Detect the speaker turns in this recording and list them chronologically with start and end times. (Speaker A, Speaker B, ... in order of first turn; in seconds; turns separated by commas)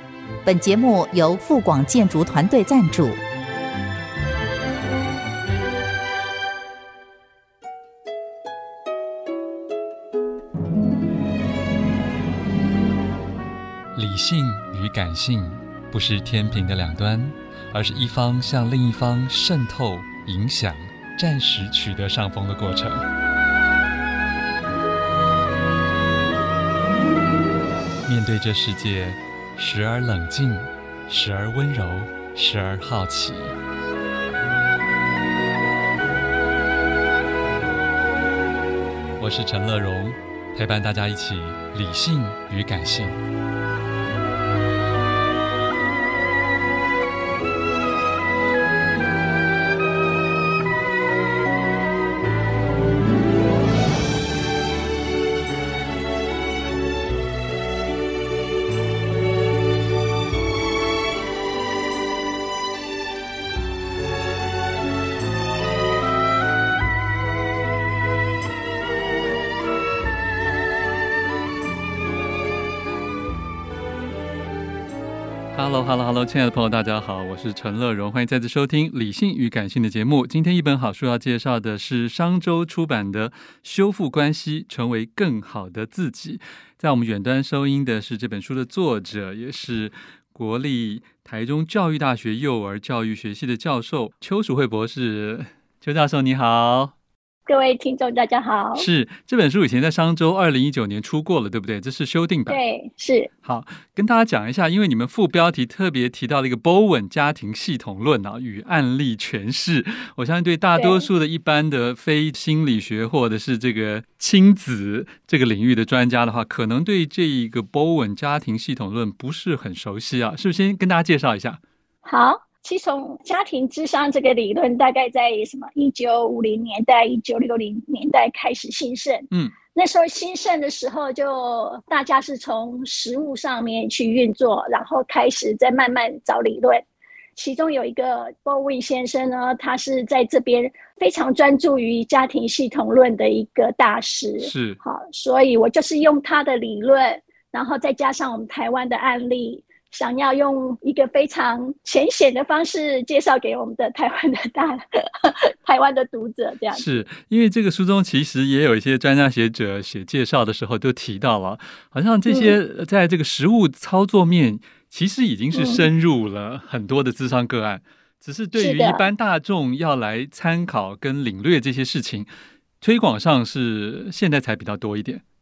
Speaker A: 0.4-3.2, Speaker B: 13.9-23.0, Speaker B: 28.1-33.5, Speaker B: 39.2-43.2, Speaker B: 75.5-96.9, Speaker C: 97.5-98.9, Speaker B: 98.7-102.6, Speaker C: 102.5-103.3, Speaker B: 103.4-121.6, Speaker C: 110.7-111.1, Speaker C: 122.0-157.0, Speaker B: 144.4-144.8, Speaker B: 156.7-172.3, Speaker C: 162.3-162.6, Speaker C: 165.5-165.9, Speaker C: 168.5-169.1, Speaker B: 172.8-175.2